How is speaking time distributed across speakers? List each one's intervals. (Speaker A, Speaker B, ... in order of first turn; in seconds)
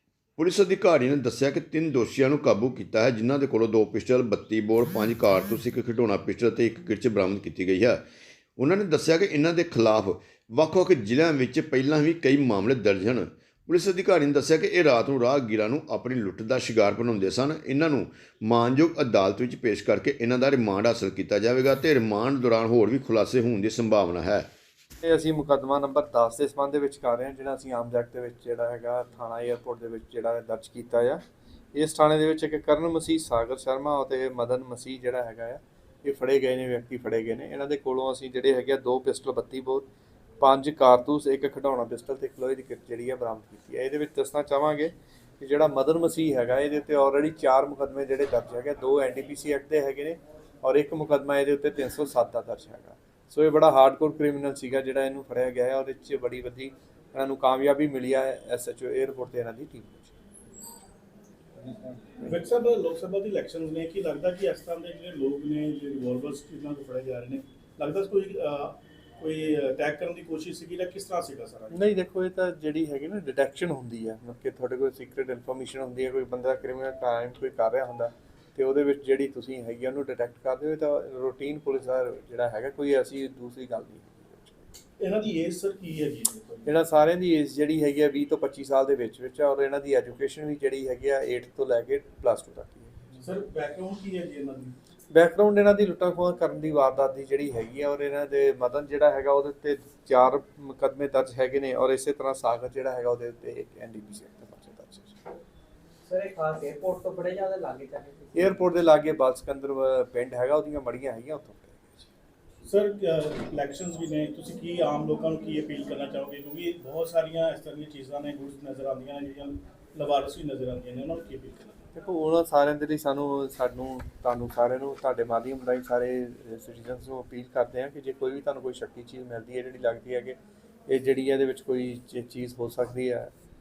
Speaker A: 0.4-8.0, 8.6-24.5
Speaker B: 25.0-31.2, 31.7-39.9, 40.4-60.1, 71.7-84.6, 86.6-92.9, 95.1-105.2, 108.3-112.0, 121.9-133.3
Speaker C: 62.2-71.8, 85.0-86.7, 93.2-94.7, 112.7-121.8
Speaker D: 106.1-108.6